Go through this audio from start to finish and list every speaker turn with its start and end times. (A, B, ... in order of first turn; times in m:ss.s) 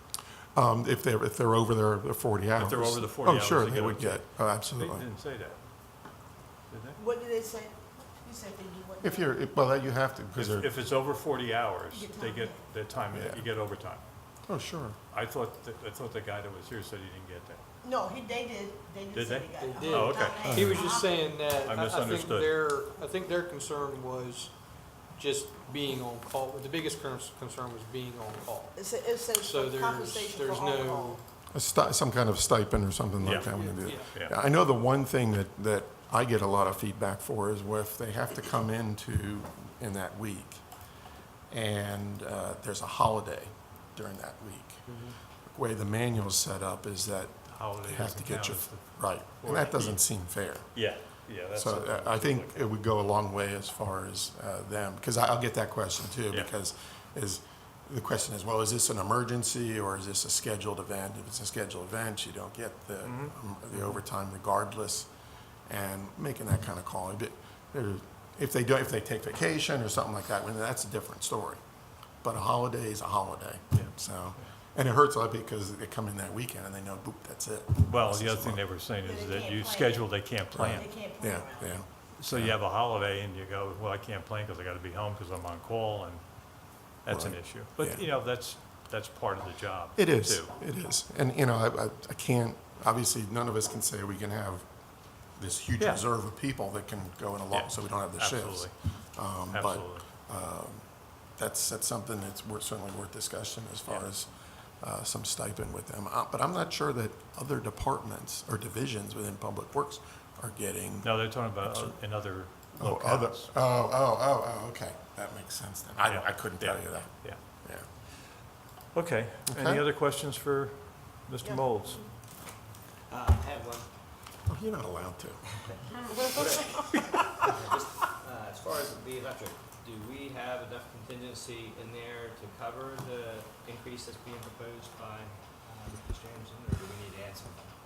0:00.6-0:05.1 A
0:02.6-0:05.6 B
0:06.7-0:07.0 B
0:07.0-0:09.4 C
0:09.0-0:10.7 A
0:10.4-0:14.0 B
0:11.9-0:12.6 C
0:13.1-0:13.5 A
0:14.5-0:15.0 A
0:15.1-0:17.6 B
0:17.8-0:21.2 C
0:19.1-0:21.0 B
0:19.6-0:24.5 D
0:20.5-0:20.8 A
0:21.7-0:22.6 B
0:25.1-0:31.2 D
0:28.8-0:31.2 C
0:31.5-0:40.6 A
0:33.2-0:34.2 D
0:41.5-0:44.9 A
0:45.4-0:50.7 A
0:47.5-0:50.0 B
0:50.7-0:52.7 B
0:51.6-1:05.1 A
1:03.0-1:04.0 B
1:05.7-1:11.6 A
1:12.2-1:18.6 A
1:17.8-1:20.9 B
1:19.0-1:20.2 C
1:20.5-1:22.6 A
1:20.7-1:21.8 C
1:22.2-1:26.2 B
1:27.0-1:30.5 B
1:27.1-1:28.1 A
1:30.0-1:34.6 A
1:35.4-1:40.8 A
1:37.5-1:38.7 B
1:39.5-1:40.1 B
1:41.4-1:44.3 A
1:44.8-1:51.1 A
1:51.0-1:53.5 B
1:51.6-1:52.0 A
1:52.8-1:57.9 A
1:56.0-1:57.4 B
1:58.9-2:02.0 B
1:59.5-1:59.8 A
2:01.4-2:02.0 C
2:03.1-2:03.9 E
2:04.5-2:05.5 A
2:06.2-2:17.7 E
2:06.4-2:07.5 A